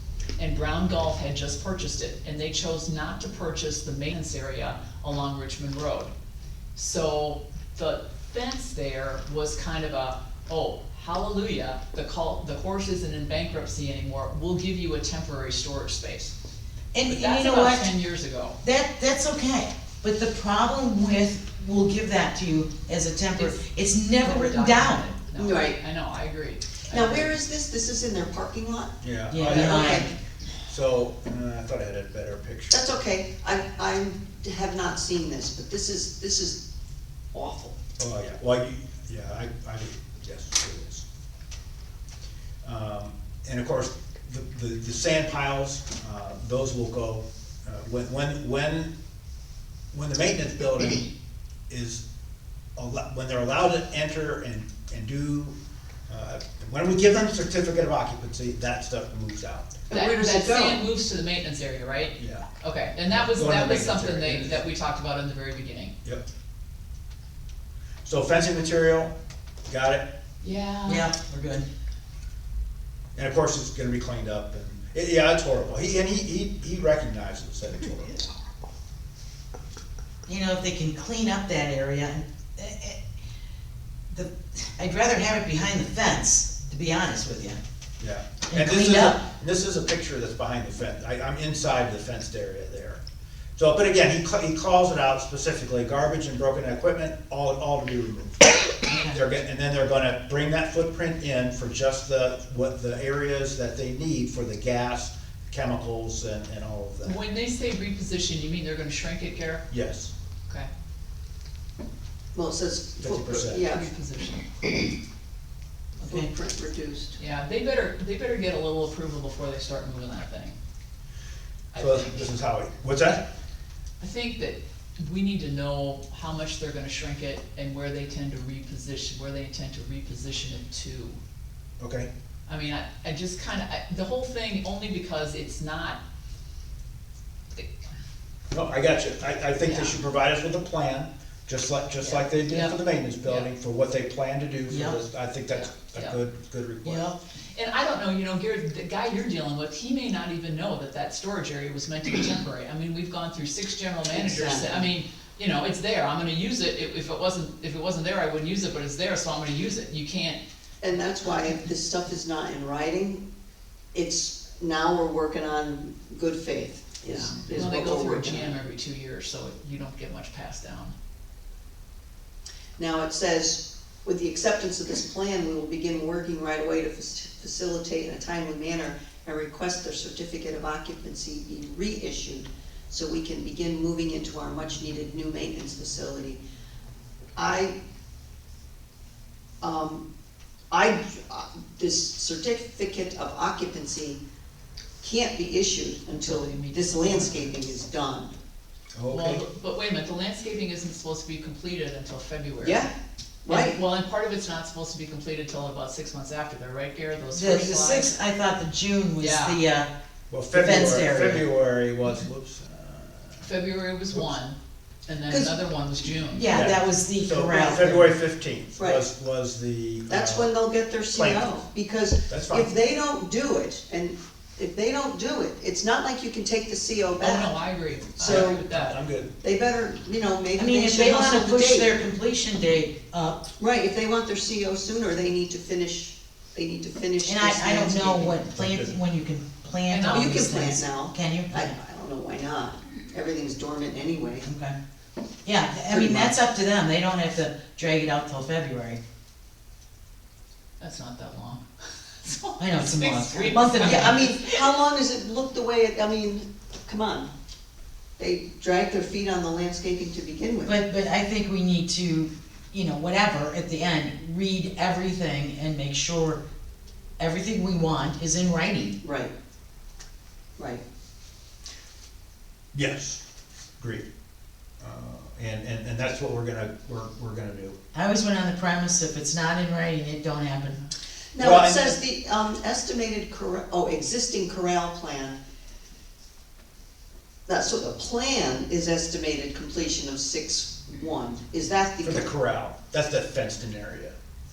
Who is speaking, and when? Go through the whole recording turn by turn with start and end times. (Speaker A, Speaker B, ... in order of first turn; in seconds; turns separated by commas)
Speaker A: 0.4-6.1, Speaker A: 6.7-16.3, Speaker B: 16.9-17.9, Speaker A: 17.1-18.6, Speaker B: 18.6-25.1, Speaker A: 23.4-27.3, Speaker C: 25.4-25.8, Speaker C: 26.9-30.1, Speaker D: 29.0-30.0, Speaker B: 29.3-30.1, Speaker A: 29.6-30.1, Speaker D: 30.7-32.9, Speaker C: 32.7-36.6, Speaker C: 37.3-37.8, Speaker D: 38.0-41.0, Speaker D: 42.6-48.9, Speaker D: 49.9-51.1, Speaker D: 51.7-52.0, Speaker D: 52.8-55.6, Speaker D: 56.1-59.8, Speaker C: 59.9-60.8, Speaker A: 59.9-65.9, Speaker D: 62.2-62.5, Speaker D: 63.1-64.6, Speaker D: 68.0-69.1, Speaker D: 69.7-70.0, Speaker A: 70.4-71.1, Speaker B: 70.9-71.7, Speaker D: 73.1-78.3, Speaker B: 80.2-83.0, Speaker B: 84.1-87.6, Speaker D: 88.0-93.0, Speaker B: 88.5-89.2, Speaker D: 93.6-98.5, Speaker B: 98.8-99.2, Speaker D: 99.1-107.2, Speaker A: 107.0-109.6, Speaker D: 109.7-110.1, Speaker C: 112.3-113.8, Speaker D: 113.0-113.6, Speaker A: 113.7-114.5, Speaker B: 116.0-116.3, Speaker C: 116.0-117.1, Speaker A: 117.2-120.6, Speaker A: 121.7-122.3, Speaker D: 121.8-123.2, Speaker A: 124.0-131.2, Speaker D: 131.8-132.1, Speaker A: 132.5-136.0, Speaker D: 138.5-147.1, Speaker A: 139.6-140.0, Speaker A: 142.0-143.5, Speaker B: 144.7-145.0, Speaker A: 145.5-146.2, Speaker B: 146.8-147.2, Speaker A: 147.5-160.4, Speaker C: 154.2-154.8, Speaker C: 160.8-163.2, Speaker A: 161.1-161.6, Speaker C: 163.9-168.5, Speaker A: 167.0-170.9, Speaker C: 172.8-186.4, Speaker C: 187.3-187.7, Speaker C: 189.6-190.1, Speaker C: 190.7-194.2, Speaker C: 195.0-198.3, Speaker A: 196.2-197.7, Speaker D: 198.9-199.4, Speaker A: 199.1-202.9, Speaker C: 202.6-202.9, Speaker C: 203.4-203.8, Speaker A: 203.5-208.1, Speaker B: 207.3-209.9, Speaker A: 209.2-209.6, Speaker D: 210.3-213.5, Speaker B: 210.5-211.5, Speaker A: 213.4-216.6, Speaker B: 216.3-218.1, Speaker D: 216.4-220.5, Speaker C: 218.8-219.0, Speaker C: 220.1-227.5, Speaker D: 221.1-221.6, Speaker D: 222.3-222.7, Speaker A: 227.2-229.0, Speaker C: 228.2-228.6, Speaker D: 228.2-229.3, Speaker C: 229.4-231.9, Speaker B: 230.6-233.4, Speaker C: 233.6-238.4, Speaker B: 237.2-241.7, Speaker D: 238.5-238.9, Speaker A: 239.9-240.4, Speaker C: 240.1-244.4, Speaker B: 244.4-244.8, Speaker B: 245.4-249.0, Speaker C: 245.9-246.3, Speaker A: 250.8-254.6, Speaker B: 252.6-254.2, Speaker C: 253.8-257.3, Speaker C: 258.2-260.8, Speaker B: 260.6-266.4, Speaker B: 267.2-269.0, Speaker C: 269.0-269.3, Speaker D: 272.7-273.2, Speaker D: 273.8-274.1, Speaker D: 274.8-277.8, Speaker B: 277.9-280.8, Speaker C: 281.3-285.4, Speaker D: 281.4-282.0, Speaker C: 287.5-292.3, Speaker D: 292.0-294.1